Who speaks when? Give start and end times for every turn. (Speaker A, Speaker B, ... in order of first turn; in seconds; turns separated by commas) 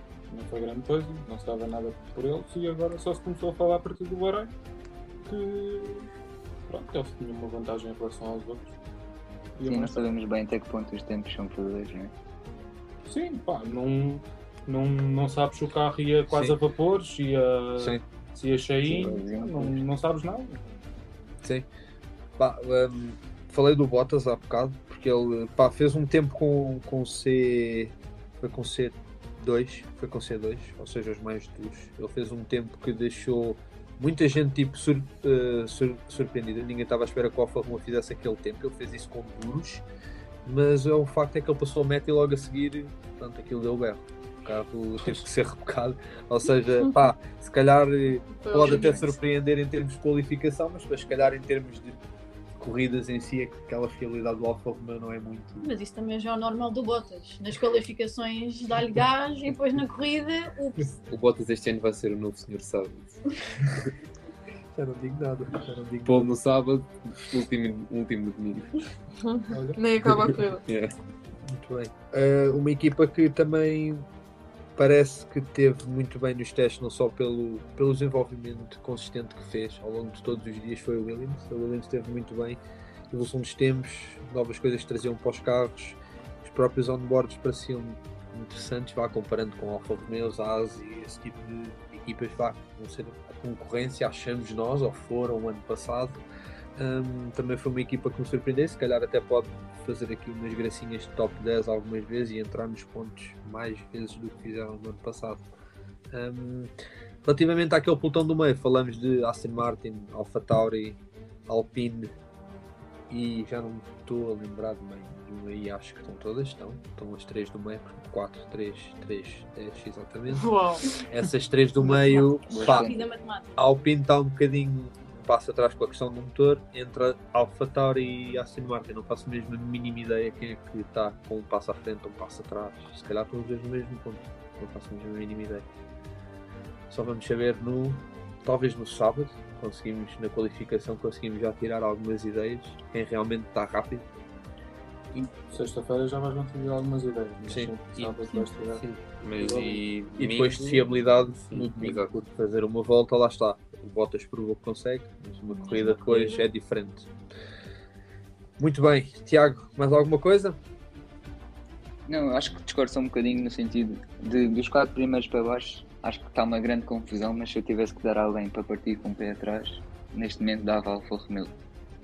Speaker A: 0.3-4.5, Speaker A: 5.2-6.1, Speaker A: 6.7-8.7, Speaker A: 9.6-10.1, Speaker B: 9.6-12.1, Speaker A: 13.1-20.8, Speaker B: 18.8-19.8, Speaker C: 22.4-39.8, Speaker C: 40.4-52.0, Speaker D: 48.5-49.0, Speaker B: 48.6-49.0, Speaker C: 52.6-55.7, Speaker E: 55.6-60.9, Speaker F: 61.1-63.2, Speaker C: 64.7-66.3, Speaker F: 66.0-68.8, Speaker D: 69.2-70.6, Speaker A: 69.5-69.8, Speaker F: 70.0-70.9, Speaker C: 71.5-74.1, Speaker C: 74.8-82.6, Speaker C: 83.1-96.2, Speaker C: 96.8-105.4, Speaker C: 106.1-106.7, Speaker C: 107.2-112.1, Speaker C: 113.1-122.9, Speaker D: 120.3-120.9, Speaker B: 122.5-123.0, Speaker E: 122.5-123.6, Speaker C: 123.5-135.7, Speaker C: 136.9-144.0, Speaker A: 145.3-148.8, Speaker C: 147.5-148.4, Speaker F: 148.8-150.9, Speaker A: 149.3-149.8, Speaker C: 150.2-157.1, Speaker F: 151.5-152.2, Speaker C: 158.6-160.6, Speaker B: 162.1-171.5